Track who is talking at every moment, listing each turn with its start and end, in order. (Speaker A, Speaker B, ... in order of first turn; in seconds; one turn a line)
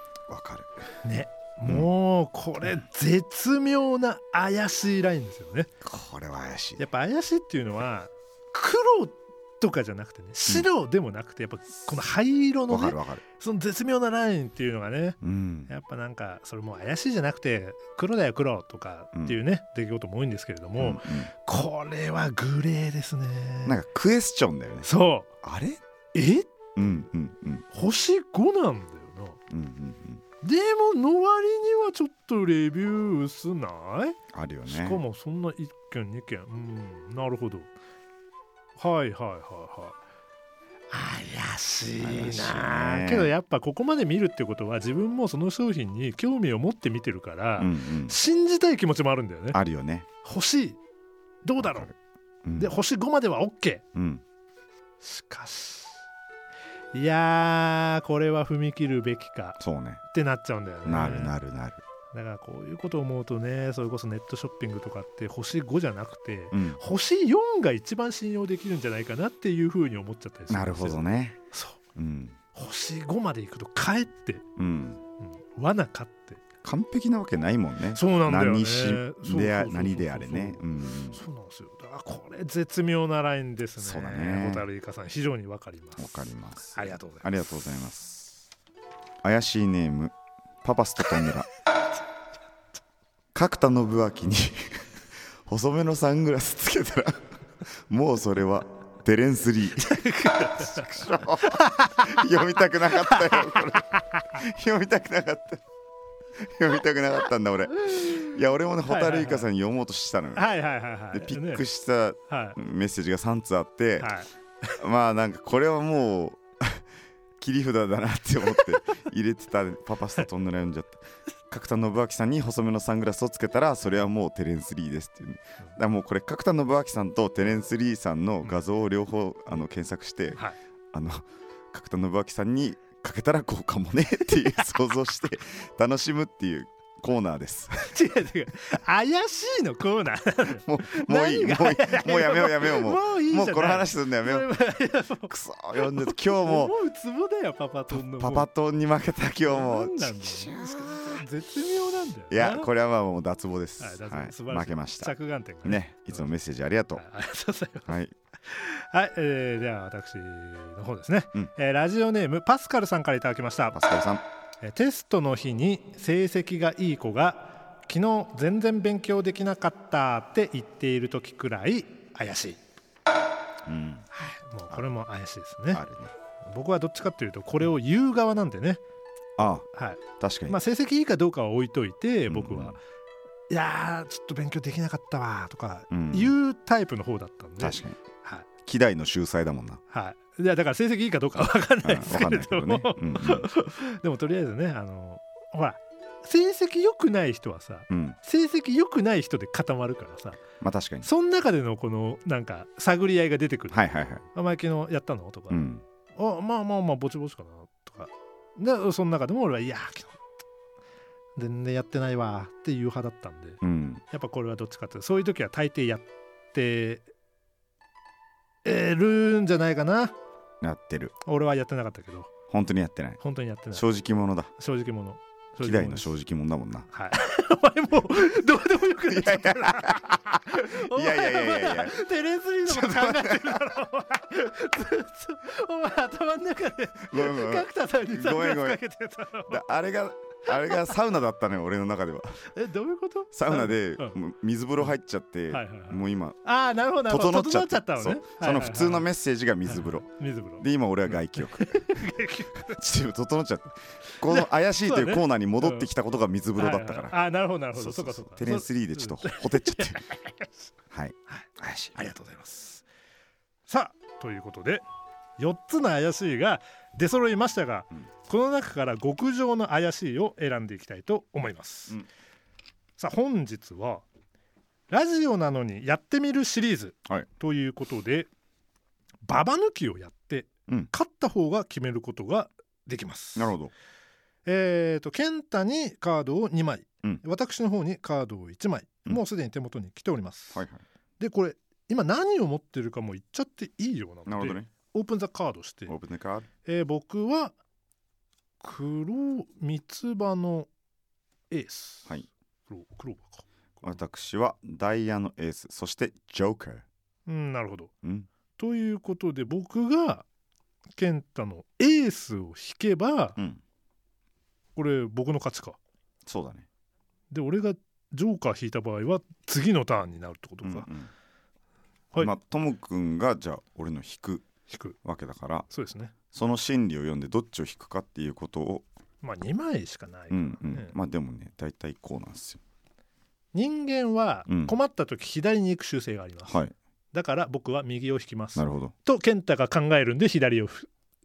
Speaker A: 0.3-0.9
Speaker B: 1.0-5.7
Speaker A: 1.6-1.9
Speaker A: 5.8-6.8
Speaker B: 6.8-23.8
Speaker A: 12.7-13.2
Speaker A: 15.2-15.7
Speaker A: 20.8-21.3
Speaker A: 23.6-24.9
Speaker B: 24.8-25.3
Speaker A: 25.4-25.8
Speaker B: 26.1-26.5
Speaker A: 26.8-27.6
Speaker B: 27.7-29.4
Speaker A: 29.5-30.2
Speaker B: 30.4-37.7
Speaker A: 34.3-35.0
Speaker B: 38.8-40.0
Speaker B: 40.9-49.6
Speaker A: 42.0-43.3
Speaker A: 47.6-48.2
Speaker A: 49.5-50.1
Speaker B: 50.2-50.8
Speaker B: 51.4-51.9
Speaker A: 51.6-51.9
Speaker A: 52.4-52.7
Speaker B: 52.6-53.8
Speaker A: 53.9-54.2
Speaker B: 55.0-55.9
Speaker B: 56.9-59.6
Speaker A: 59.6-60.0
Speaker B: 60.1-61.3
Speaker A: 60.8-61.8
Speaker B: 62.1-71.0
Speaker A: 66.5-66.8
Speaker A: 70.5-71.4
Speaker B: 71.5-71.8
Speaker A: 72.0-72.4
Speaker B: 72.5-74.5
Speaker A: 74.6-75.0
Speaker B: 75.2-76.4
Speaker A: 76.6-81.2
Speaker B: 77.9-86.2
Speaker A: 83.8-84.6
Speaker A: 86.0-88.4
Speaker B: 86.7-87.3
Speaker A: 89.2-91.5
Speaker A: 93.3-94.8
Speaker A: 95.5-97.2
Speaker A: 97.9-105.6
Speaker B: 99.8-102.2
Speaker B: 103.0-104.2
Speaker A: 106.5-110.4
Speaker B: 108.8-109.5
Speaker B: 110.3-111.6
Speaker A: 111.1-114.1
Speaker B: 112.3-112.6
Speaker B: 114.0-114.7
Speaker A: 114.8-116.8
Speaker A: 117.4-130.4
Speaker A: 130.9-137.9
Speaker B: 137.9-148.5
Speaker A: 140.6-144.5
Speaker A: 145.3-146.7
Speaker A: 147.9-151.2
Speaker B: 149.5-152.7
Speaker A: 152.3-155.1
Speaker B: 153.8-156.3
Speaker A: 155.6-157.0
Speaker B: 156.9-163.8
Speaker A: 157.8-158.1
Speaker A: 163.7-164.2
Speaker B: 164.6-172.6
Speaker A: 173.7-174.1
Speaker B: 174.1-175.8
Speaker A: 175.7-176.1
Speaker B: 176.4-178.8
Speaker A: 179.4-179.7
Speaker B: 179.7-182.8
Speaker A: 180.2-180.6
Speaker A: 182.3-182.8
Speaker B: 183.5-188.4
Speaker A: 185.9-186.3
Speaker A: 187.6-188.0
Speaker A: 188.7-189.8
Speaker B: 189.9-200.4
Speaker A: 191.8-193.5
Speaker A: 197.9-198.2
Speaker A: 200.6-201.1
Speaker B: 201.0-203.8
Speaker A: 203.7-204.2
Speaker B: 204.3-205.6
Speaker A: 205.5-205.8
Speaker B: 206.2-210.2
Speaker B: 211.3-213.6
Speaker A: 213.6-214.0
Speaker B: 214.1-217.1
Speaker B: 218.6-220.1
Speaker A: 220.6-221.1
Speaker B: 221.2-222.3
Speaker A: 222.5-223.2
Speaker B: 223.2-223.8
Speaker A: 223.7-224.5
Speaker B: 224.6-226.1
Speaker A: 225.6-226.9
Speaker B: 226.9-239.6
Speaker A: 229.1-230.2
Speaker A: 230.7-231.9
Speaker A: 232.7-233.6
Speaker A: 237.1-238.8
Speaker A: 239.5-242.4
Speaker B: 240.5-240.9
Speaker B: 242.5-244.2
Speaker A: 243.3-246.4
Speaker B: 245.5-249.1
Speaker A: 247.1-250.1
Speaker B: 249.7-252.8
Speaker A: 250.6-252.0
Speaker A: 252.7-257.2
Speaker B: 254.2-255.9
Speaker B: 256.6-260.5
Speaker A: 257.7-260.0
Speaker A: 260.9-261.9
Speaker B: 261.3-262.8
Speaker B: 263.7-264.8
Speaker B: 265.4-272.0
Speaker B: 273.0-274.0
Speaker B: 274.9-278.3
Speaker B: 279.2-283.5
Speaker A: 283.4-283.7
Speaker B: 284.4-290.6
Speaker A: 290.5-290.8
Speaker B: 291.2-295.9
Speaker A: 294.2-294.7
Speaker A: 295.9-296.5
Speaker B: 296.6-297.5
Speaker B: 298.6-300.7
Speaker B: 301.5-302.1
Speaker B: 302.7-304.0
Speaker A: 303.8-306.8
Speaker B: 307.3-307.9
Speaker A: 308.0-308.3
Speaker B: 308.6-310.2
Speaker B: 310.9-313.4
Speaker B: 314.8-315.8
Speaker A: 316.2-316.7
Speaker B: 317.3-320.9
Speaker A: 320.6-321.1
Speaker A: 322.2-324.5
Speaker B: 324.7-324.9
Speaker A: 325.0-325.6
Speaker B: 325.7-326.1
Speaker A: 326.3-328.9
Speaker B: 329.2-330.9
Speaker A: 330.3-332.6
Speaker B: 333.5-336.5
Speaker A: 334.5-334.7
Speaker A: 336.4-336.7
Speaker B: 337.1-340.9
Speaker A: 338.6-338.9